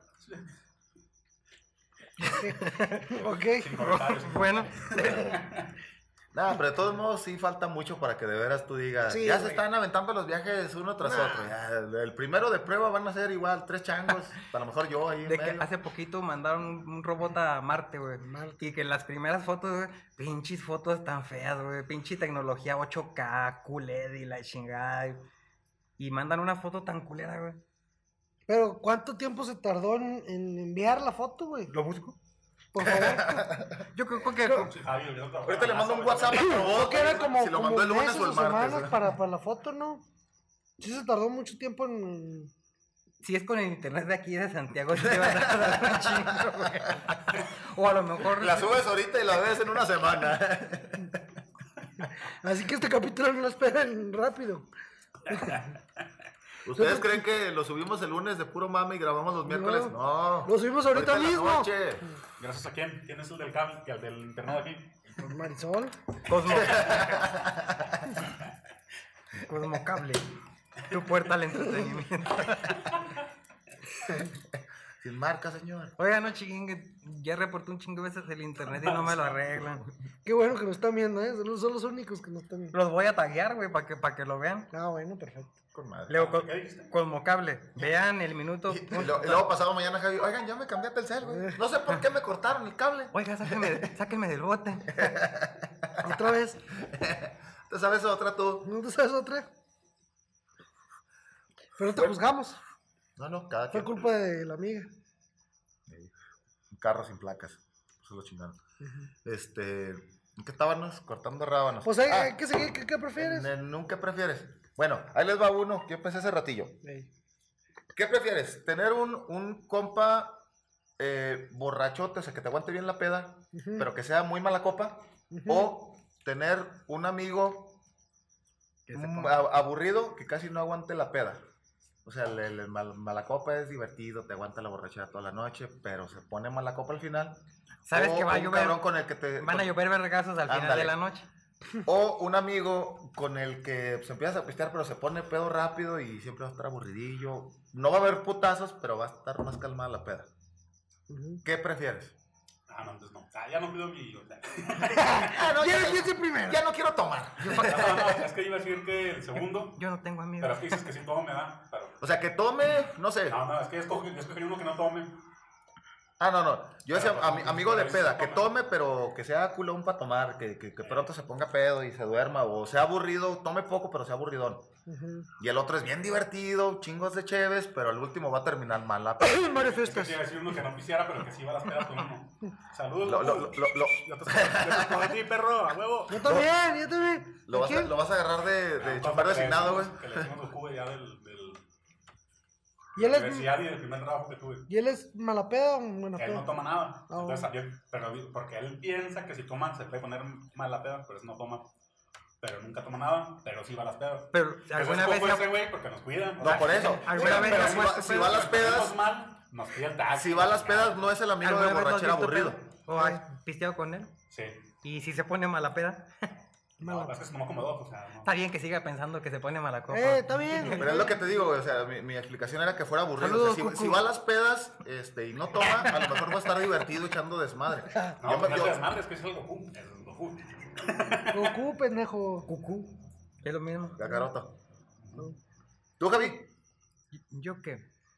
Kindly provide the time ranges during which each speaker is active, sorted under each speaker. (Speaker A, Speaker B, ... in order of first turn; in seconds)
Speaker A: 0.2-0.5, 3.5-5.7, 34.5-37.1, 55.3-55.6, 62.4-65.0, 66.5-67.3, 78.7-79.3, 86.1-86.9, 152.7-155.4, 157.5-159.8, 160.4-162.0, 163.3-165.2, 166.9-168.5, 170.8-171.1, 179.6-186.4, 188.8-191.6, 192.9-194.7, 196.2-201.7, 202.4-211.1, 214.3-214.6, 216.8-218.3, 228.2-231.6, 235.0-235.3
Speaker B: 2.2-3.2, 3.8-5.3, 15.2-25.2, 26.0-27.6, 31.7-32.1, 33.9-34.7, 43.2-48.8, 66.3-67.0, 69.4-72.9, 76.0-79.9, 82.7-84.7, 86.1-89.5, 93.1-95.0, 128.9-129.3, 137.9-138.8, 139.4-141.3, 157.4-157.9, 159.7-160.8, 204.3-205.5, 206.5-208.4, 211.4-214.1, 214.8-216.1, 218.2-220.7, 223.2-224.0, 232.4-234.0, 237.1-237.8
Speaker C: 2.2-3.9, 9.1-9.6, 11.0-11.5, 18.2-18.6, 28.5-31.7, 32.7-33.5, 34.4-34.7, 36.5-40.0, 40.8-42.5, 52.0-54.7, 55.3-55.7, 56.7-57.2, 59.5-61.7, 65.2-66.0, 80.2-82.7, 84.7-85.5, 91.3-91.6, 96.0-96.6, 98.6-99.5, 101.8-102.6, 103.7-104.9, 111.8-113.5, 123.5-123.8, 125.3-125.7, 151.1-151.4, 154.9-156.6, 174.9-175.3, 179.2-180.2, 186.1-187.9, 193.0-193.5, 194.7-196.5, 197.1-197.5, 207.2-207.5, 212.9-213.2, 216.8-217.1, 219.9-221.3, 231.3-232.5
Speaker D: 6.3-15.7, 32.8-33.8, 35.5-39.1, 44.9-47.0, 48.2-51.3, 56.6-62.1, 66.5-68.1, 75.0-75.9, 85.7-86.3, 88.7-93.9, 94.9-98.7, 103.2-104.0, 106.7-108.6, 109.2-112.3, 113.2-116.8, 117.9-120.4, 121.0-127.8, 128.9-131.4, 132.0-137.4, 137.9-139.8, 140.4-140.9, 141.8-150.3, 151.4-152.1, 155.2-158.2, 162.0-163.4, 166.2-174.7, 175.4-179.8, 183.0-185.1, 186.2-186.5, 187.4-190.3, 206.4-209.0, 210.1-212.6, 220.6-228.9, 233.9-234.6, 236.0-236.5